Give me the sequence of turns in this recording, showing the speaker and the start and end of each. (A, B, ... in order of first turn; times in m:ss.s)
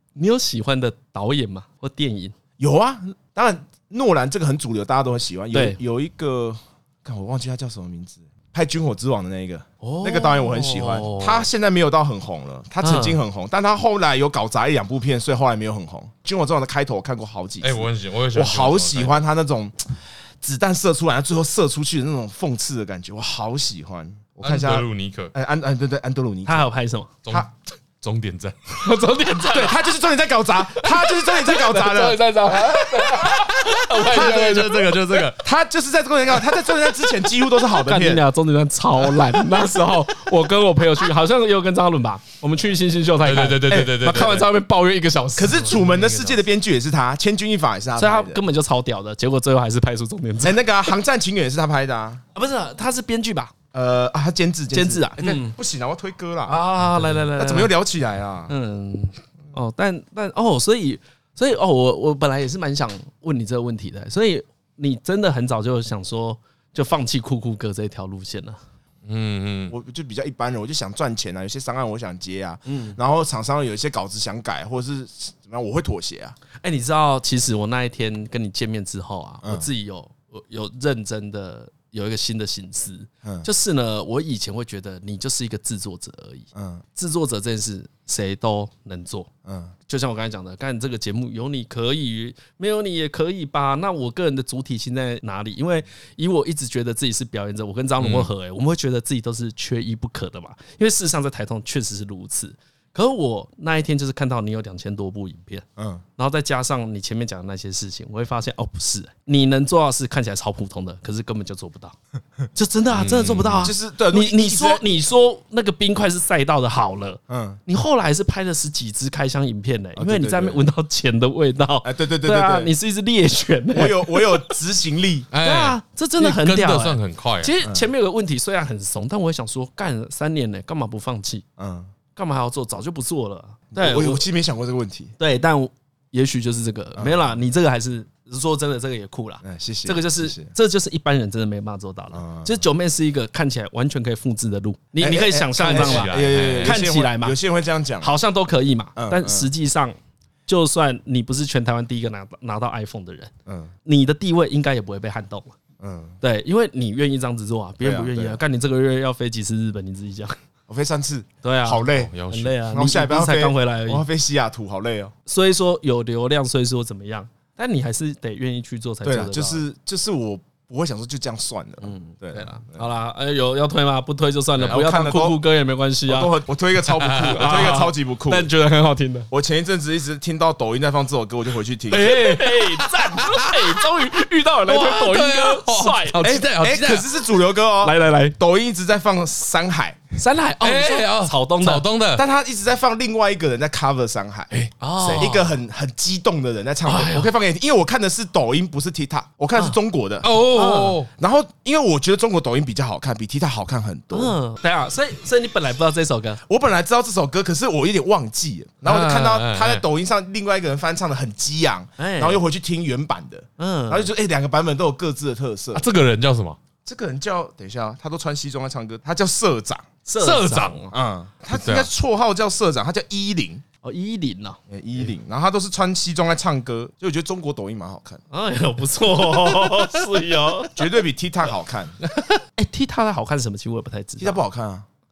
0:00.2-0:02.4 A
0:02.6-0:26.7 B
0:05.5-0:05.8 A
0:09.8-0:11.5 A
0:12.8-0:13.2 A
0:17.6-0:19.2 C
0:24.4-0:25.3 C
0:26.5-0:27.1 A
0:27.2-0:28.8 C
0:28.8-0:29.8 A
0:29.5-0:32.2 B
0:31.1-0:35.0 A
0:33.0-0:35.4 C
0:34.1-0:34.8 B
0:35.3-0:38.2 B
0:37.8-0:45.8 A
0:43.2-0:44.5 C
0:43.7-0:44.0 B
0:45.4-0:48.4 B
0:45.7-0:46.4 C
0:48.0-0:50.6 A
0:50.4-0:52.2 B
0:52.4-0:53.5 A
0:53.7-0:56.6 B
0:54.7-0:55.6 A
0:56.5-0:57.7 A
0:57.4-0:58.5 B
0:58.5-1:08.6 A
1:09.0-1:09.7 C
1:09.7-1:16.4 B
1:12.7-1:13.0 A
1:16.6-1:29.3 A
1:26.6-1:26.8 B
1:29.5-1:29.7 B
1:29.9-1:45.7 A
1:38.0-1:38.3 C
1:45.8-1:46.0 B
1:46.2-1:52.0 A
1:52.6-2:04.5 A
1:52.9-1:53.7 C
1:53.6-1:54.9 B
1:57.3-1:57.6 B
2:00.0-2:00.6 B
2:01.8-2:02.7 B
2:03.7-2:05.3 B
2:05.3-2:07.5 C
2:05.4-2:11.4 A
2:07.6-2:07.9 B
2:11.6-2:11.9 B
2:12.2-2:14.2 A
2:13.7-2:15.1 B
2:15.2-2:27.4 A
2:17.0-2:17.2 B
2:19.4-2:20.5 B
2:22.1-2:22.6 B
2:25.0-2:28.1 B
2:25.6-2:26.8 C
2:28.0-2:30.0 A
2:29.0-2:29.5 B
2:30.5-2:33.3 A
2:33.5-2:33.7 B
2:33.8-2:35.6 A
2:35.8-2:36.2 B
2:36.2-2:40.4 A
2:37.8-2:38.4 B
2:40.7-2:42.1 B
2:41.4-2:44.0 A
2:41.9-2:42.6 C
2:42.6-2:45.1 B
2:45.3-2:49.6 A
2:49.0-2:52.8 B
2:51.8-2:56.3 A
2:54.6-2:55.4 B
2:56.1-2:58.5 B
2:57.0-2:57.7 C
2:57.2-2:59.3 A
2:59.3-3:02.2 B
3:01.9-3:03.8 C
3:01.9-3:06.5 A
3:04.6-3:07.1 C
3:06.4-3:10.0 B
3:07.8-3:08.4 A
3:10.2-3:11.8 A
3:10.6-3:12.2 C
3:12.2-3:14.5 B
3:14.5-3:15.3 C
3:14.8-3:15.6 A
3:15.1-3:20.3 B
3:16.8-3:17.3 A
3:20.2-3:21.1 C
3:20.5-3:21.0 A
3:21.2-3:24.4 B
3:24.1-3:26.4 A
3:26.5-3:35.9 B
3:28.8-3:29.8 C
3:32.0-3:32.4 A
3:33.6-3:34.1 A
3:35.7-3:36.6 C
3:36.8-3:39.9 B
3:40.1-3:40.9 A
3:40.2-3:40.8 C
3:40.9-3:43.6 B
3:41.5-3:41.9 C
3:43.8-3:44.6 A
3:44.7-3:48.2 B
3:48.3-3:50.8 A
3:50.7-3:52.0 B
3:52.6-3:54.4 A
3:54.2-3:54.9 B